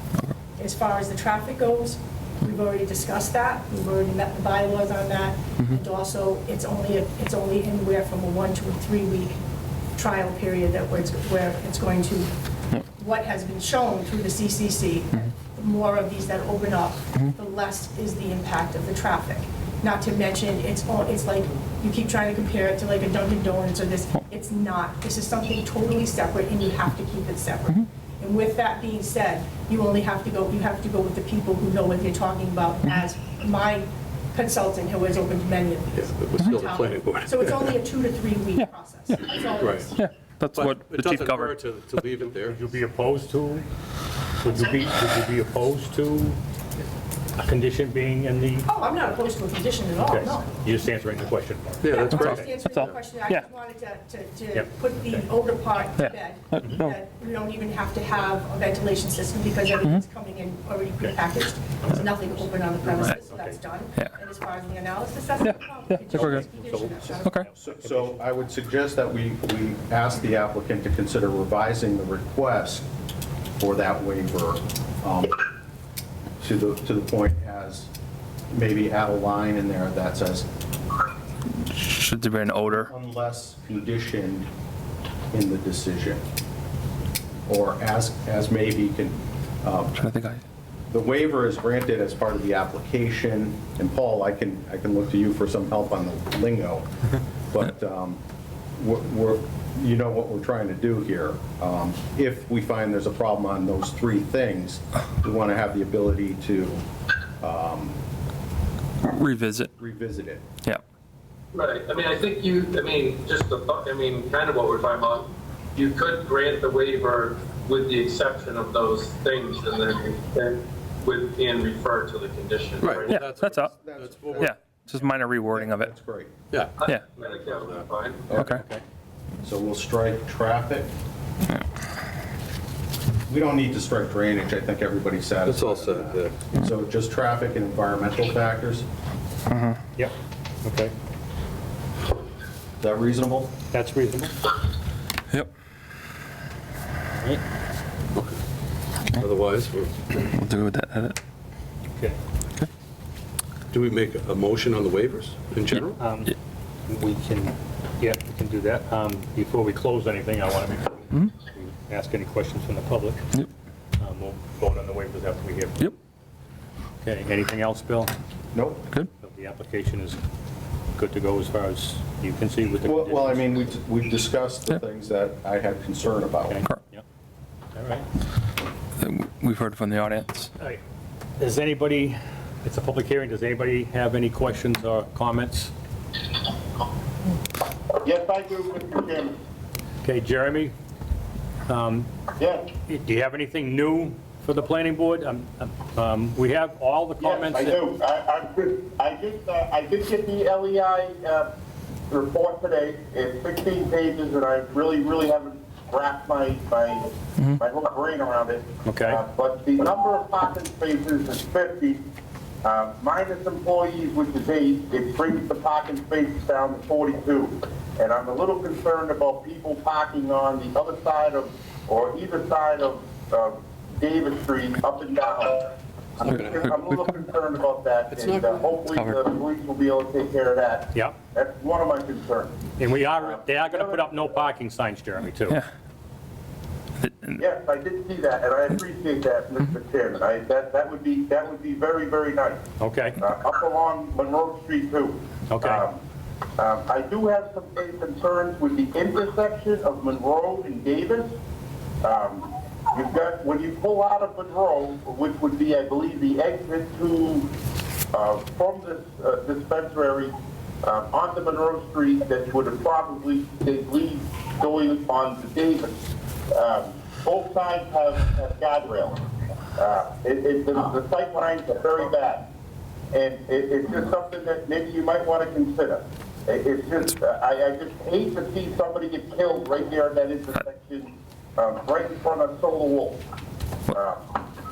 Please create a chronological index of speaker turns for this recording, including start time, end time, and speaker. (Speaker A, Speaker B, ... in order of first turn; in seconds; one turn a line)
Speaker A: 0.6-9.4
Speaker A: 9.9-12.3
Speaker A: 12.9-40.0
Speaker B: 35.9-37.7
Speaker C: 38.6-39.2
Speaker B: 39.6-39.9
Speaker C: 39.9-41.6
Speaker B: 40.5-42.8
Speaker D: 42.3-43.6
Speaker D: 44.4-46.4
Speaker D: 47.4-48.7
Speaker A: 48.6-50.5
Speaker D: 50.0-52.5
Speaker B: 51.8-52.5
Speaker A: 51.9-67.5
Speaker C: 52.1-53.4
Speaker D: 54.5-55.2
Speaker C: 56.0-56.9
Speaker D: 63.3-63.6
Speaker C: 65.4-66.4
Speaker D: 66.1-68.2
Speaker E: 67.6-72.8
Speaker E: 73.6-75.4
Speaker E: 76.4-77.9
Speaker E: 78.5-80.5
Speaker C: 81.6-82.9
Speaker E: 82.7-84.5
Speaker E: 85.3-86.2
Speaker E: 87.5-90.0
Speaker C: 89.9-90.4
Speaker E: 90.9-96.9
Speaker E: 97.5-98.2
Speaker E: 98.8-106.8
Speaker E: 107.4-108.0
Speaker C: 109.0-109.7
Speaker E: 109.8-110.5
Speaker F: 111.5-123.2
Speaker B: 122.8-124.5
Speaker C: 123.0-123.7
Speaker E: 123.4-124.5
Speaker C: 124.4-125.9
Speaker E: 125.5-126.3
Speaker B: 126.5-128.0
Speaker F: 126.8-128.2
Speaker E: 128.3-128.6
Speaker C: 128.3-128.6
Speaker D: 128.4-128.8
Speaker E: 129.4-130.9
Speaker E: 133.3-138.8
Speaker B: 135.4-136.4
Speaker C: 139.5-139.8
Speaker D: 140.0-140.9
Speaker E: 142.8-143.5
Speaker D: 143.7-144.3
Speaker D: 147.2-147.4
Speaker B: 149.2-150.2
Speaker C: 150.3-151.2
Speaker B: 153.7-156.0
Speaker C: 155.7-156.3
Speaker D: 155.9-156.3
Speaker D: 156.9-163.2
Speaker D: 164.0-165.9
Speaker D: 167.0-168.1
Speaker E: 168.5-168.9
Speaker D: 169.2-170.2
Speaker D: 170.9-173.5
Speaker E: 172.8-176.6
Speaker D: 176.5-177.0
Speaker D: 177.7-178.1
Speaker C: 179.0-180.5
Speaker D: 181.4-185.7
Speaker G: 187.9-189.4
Speaker D: 190.0-190.7
Speaker D: 191.7-192.1
Speaker G: 192.4-192.7
Speaker D: 192.9-197.8
Speaker G: 197.2-201.5
Speaker G: 202.1-212.0
Speaker D: 208.8-209.2
Speaker G: 212.6-232.6
Speaker B: 226.3-226.7
Speaker C: 226.7-227.1
Speaker B: 228.1-228.8
Speaker C: 228.9-229.2
Speaker D: 232.8-235.6
Speaker G: 233.2-234.1
Speaker C: 237.0-237.4
Speaker G: 237.4-242.6
Speaker D: 242.8-243.2
Speaker G: 243.2-246.0
Speaker D: 245.5-245.8
Speaker G: 246.6-251.3
Speaker G: 252.0-257.5
Speaker G: 258.1-260.3
Speaker G: 260.8-265.9
Speaker G: 266.5-269.2
Speaker G: 269.8-272.4
Speaker G: 273.1-283.2
Speaker G: 283.9-284.4